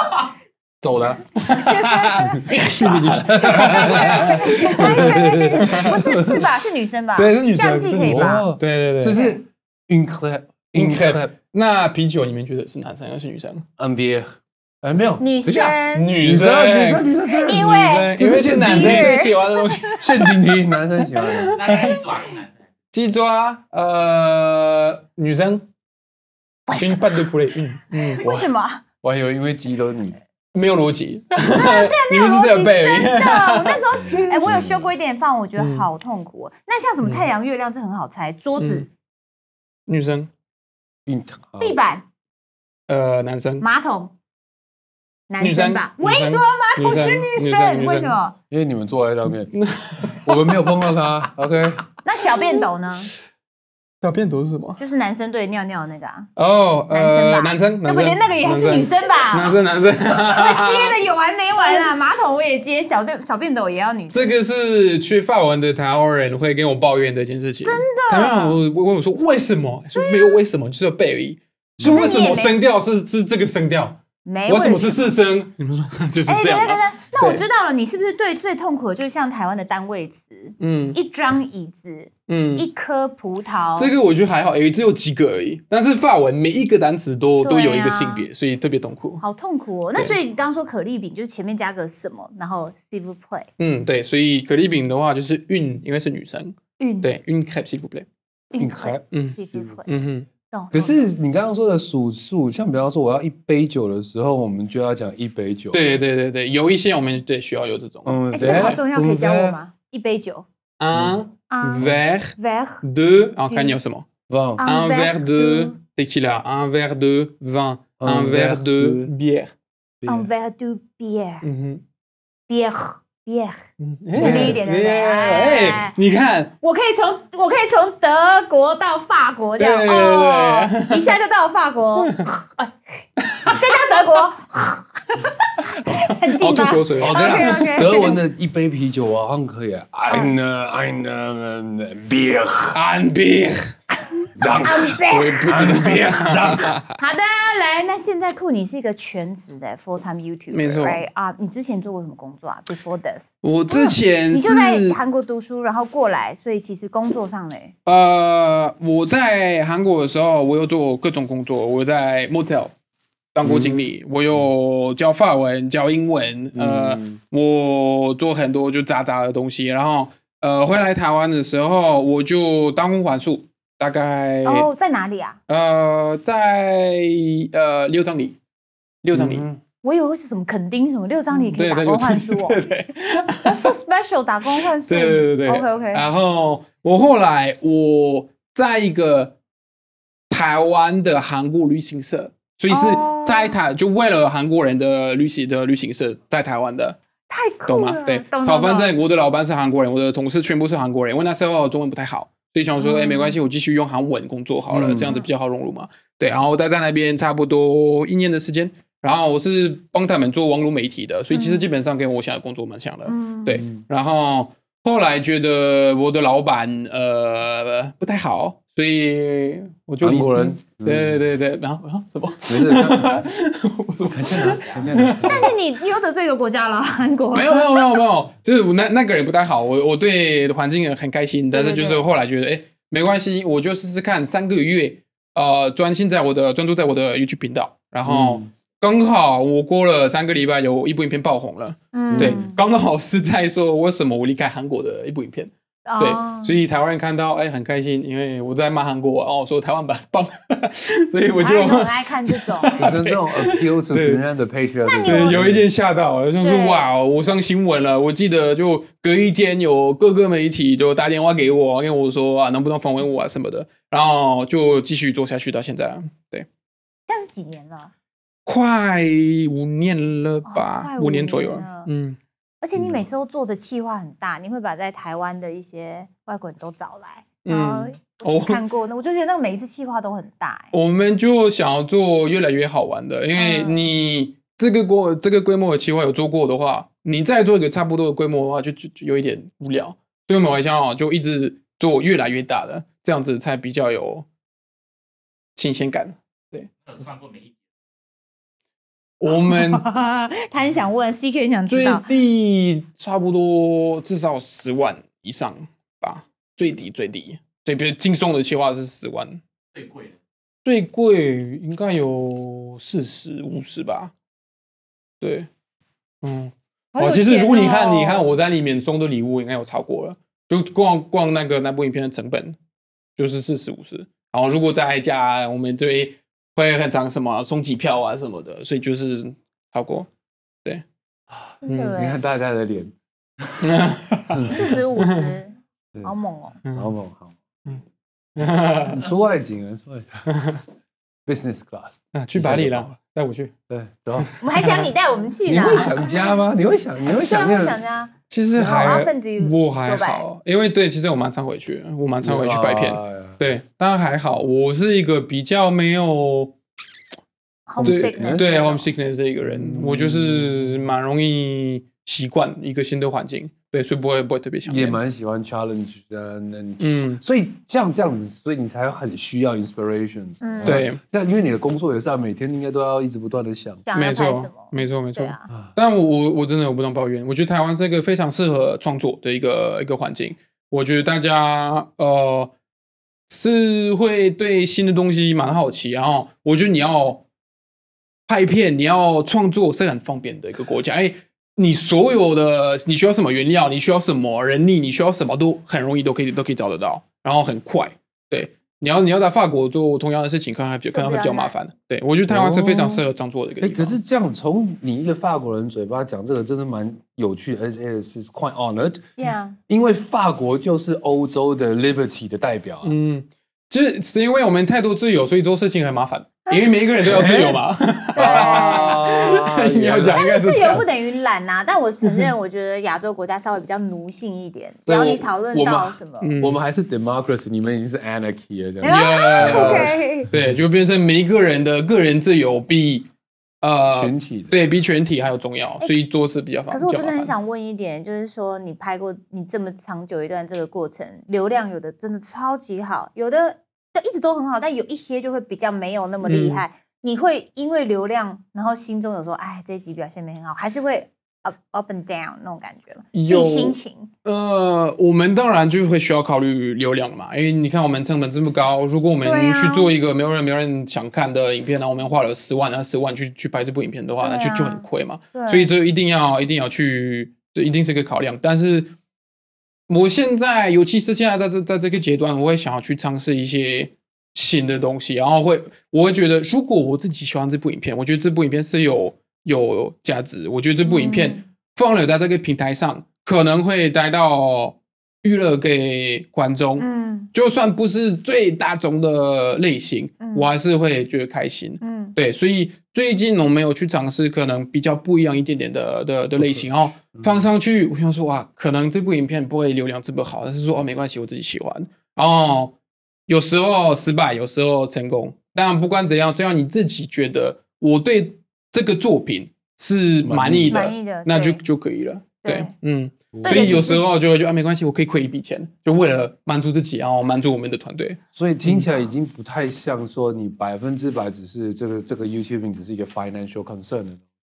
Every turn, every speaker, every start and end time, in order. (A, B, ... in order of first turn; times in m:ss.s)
0:00.8-0:01.2 A
0:01.4-0:06.3 B
0:01.5-0:02.4 C
0:02.3-0:06.4 A
0:03.5-0:08.5 C
0:07.2-0:09.2 B
0:08.0-0:11.3 A
0:10.7-0:13.6 B
0:13.8-0:19.3 A
0:15.2-0:16.1 C
0:15.9-0:17.1 B
0:17.4-0:20.4 C
0:17.7-0:20.1 B
0:19.9-0:21.8 A
0:21.2-0:22.2 B
0:21.7-0:22.2 C
0:22.9-0:25.6 B
0:26.7-0:27.2 C
0:26.7-0:28.4 B
0:27.9-0:28.8 C
0:29.0-0:30.2 A
0:30.5-0:34.5 B
0:31.5-0:38.8 C
0:34.1-0:34.9 A
0:35.6-0:35.8 B
0:37.0-0:37.3 B
0:38.6-0:38.8 B
0:39.9-0:40.3 B
0:41.0-0:41.8 A
0:41.6-0:42.0 C
0:42.9-0:43.6 B
0:43.6-0:44.1 C
0:45.3-0:48.3 C
0:45.4-0:48.2 B
0:48.5-0:49.5 A
0:49.5-0:50.5 B
0:50.2-0:51.8 A
0:52.0-0:53.1 C
0:54.0-0:54.8 B
0:54.8-0:56.3 C
0:56.4-1:01.0 B
0:56.9-0:59.6 C
1:00.1-1:04.4 C
1:04.1-1:17.4 B
1:07.6-1:08.6 C
1:09.9-1:10.4 C
1:11.8-1:12.3 A
1:11.8-1:12.6 C
1:14.2-1:15.1 C
1:16.2-1:23.9 C
1:20.6-1:21.0 B
1:22.3-1:22.6 B
1:23.8-1:29.2 B
1:27.4-1:28.3 C
1:29.2-1:33.5 C
1:33.6-1:38.1 B
1:36.8-1:37.1 C
1:38.5-1:39.9 C
1:38.6-1:39.0 A
1:39.1-1:40.3 B
1:40.5-1:41.1 C
1:40.7-1:45.8 A
1:45.7-1:48.8 B
1:48.0-1:49.6 A
1:48.3-1:50.5 C
1:50.8-1:54.1 B
1:51.5-1:52.8 C
1:53.5-1:53.8 C
1:54.3-1:54.6 A
1:54.6-1:55.8 C
1:54.6-1:59.5 B
1:58.0-1:59.1 A
2:00.0-2:00.3 A
2:00.1-2:01.5 C
2:01.4-2:01.8 B
2:02.5-2:05.9 C
2:03.8-2:06.5 B
2:04.1-2:04.6 A
2:06.6-2:12.7 C
2:09.6-2:11.1 B
2:12.0-2:12.3 B
2:13.2-2:13.6 B
2:13.4-2:18.2 C
2:15.9-2:17.9 B
2:17.0-2:22.8 A
2:22.7-2:23.7 B
2:24.4-2:26.8 A
2:24.6-2:25.5 C
2:25.0-2:26.9 B
2:27.0-2:37.7 C
2:30.5-2:31.0 B
2:33.4-2:35.0 B
2:37.8-2:42.7 B
2:43.3-2:54.7 B
2:43.4-2:43.8 A
2:46.5-2:47.2 A
2:54.4-2:55.4 C
2:55.5-2:58.4 B
2:59.0-2:59.4 B
2:59.1-2:59.6 A
2:59.8-3:02.6 C
3:01.5-3:03.7 B
3:03.4-3:06.0 C
3:04.6-3:09.4 B
3:10.3-3:17.0 B
3:12.7-3:13.6 C
3:17.3-3:18.9 C
3:17.6-3:45.5 B
3:22.8-3:23.3 C
3:24.7-3:25.1 A
3:31.3-3:31.6 C
3:33.0-3:33.6 C
3:40.0-3:41.2 A
3:42.4-3:43.2 A
3:44.1-3:45.5 A
3:45.2-3:48.0 C
3:47.3-4:14.2 B
3:51.5-3:52.0 C
3:58.0-3:58.5 A
4:01.9-4:02.6 C
4:02.1-4:02.4 A
4:05.8-4:06.6 C
4:11.4-4:12.9 C
4:12.8-4:15.6 A
4:14.8-4:15.4 C
4:15.0-4:26.5 B
4:16.4-4:16.8 C
4:27.1-4:27.9 C
4:28.4-4:32.2 B
4:30.5-4:31.9 C
4:32.6-4:40.7 C
4:37.4-4:38.6 B
4:40.7-4:54.2 B
4:43.4-4:43.8 C
4:55.6-4:57.1 B
4:59.2-4:59.8 B
4:59.3-5:02.1 C
5:01.7-5:09.4 B
5:10.6-5:14.1 B
5:15.2-5:15.5 B
5:16.2-5:22.6 B
5:16.9-5:18.3 C
5:23.2-5:30.1 B
5:31.3-5:32.9 A
5:31.6-5:32.2 C
5:31.7-5:32.0 B
5:33.6-5:35.3 B
5:34.3-5:34.6 A
5:34.4-5:36.6 C
5:36.7-5:37.3 A
5:38.4-5:39.0 B
5:38.8-5:40.2 A
5:40.3-5:40.6 B
5:41.2-5:42.9 A
5:42.1-5:43.5 B
5:43.7-5:44.3 A
5:44.2-5:44.9 B
5:44.4-5:46.3 C
5:45.4-5:47.8 A
5:47.0-5:50.2 C
5:48.3-5:56.5 B
5:52.2-5:53.4 A
5:57.7-5:58.8 C
5:57.8-5:58.8 A
5:57.8-6:05.0 B
5:59.4-6:00.8 A
6:04.6-6:13.8 A
6:06.8-6:07.2 B
6:10.4-6:10.8 C
6:10.6-6:11.0 B
6:13.8-6:15.5 C
6:13.9-6:22.5 B
6:23.3-6:27.2 B
6:28.3-6:44.0 B
6:40.9-6:41.5 C
6:42.3-6:43.0 A
6:43.6-6:49.0 A
6:49.2-6:49.6 C
6:49.7-6:52.9 A
6:52.8-7:00.8 B
6:57.0-6:57.6 A
6:58.1-6:59.1 C
6:58.2-7:00.2 A
7:00.1-7:06.3 C
7:04.9-7:10.6 A
7:06.2-7:06.6 B
7:08.8-7:10.3 C
7:08.8-7:13.1 B
7:13.6-7:17.3 B
7:13.9-7:14.7 A
7:16.7-7:34.1 C
7:26.2-7:26.6 B
7:33.1-7:48.9 B
7:39.2-7:39.9 C
7:44.2-7:45.7 C
7:49.9-8:22.7 B
8:00.8-8:01.4 C
8:06.8-8:07.3 C
8:10.2-8:10.5 C
8:11.8-8:12.1 C
8:17.1-8:17.5 A
8:23.3-8:38.8 B
8:30.2-8:30.9 A
8:30.7-8:31.6 C
8:32.4-8:32.7 C
8:33.3-8:34.0 A
8:33.4-8:34.1 C
8:38.3-8:44.2 A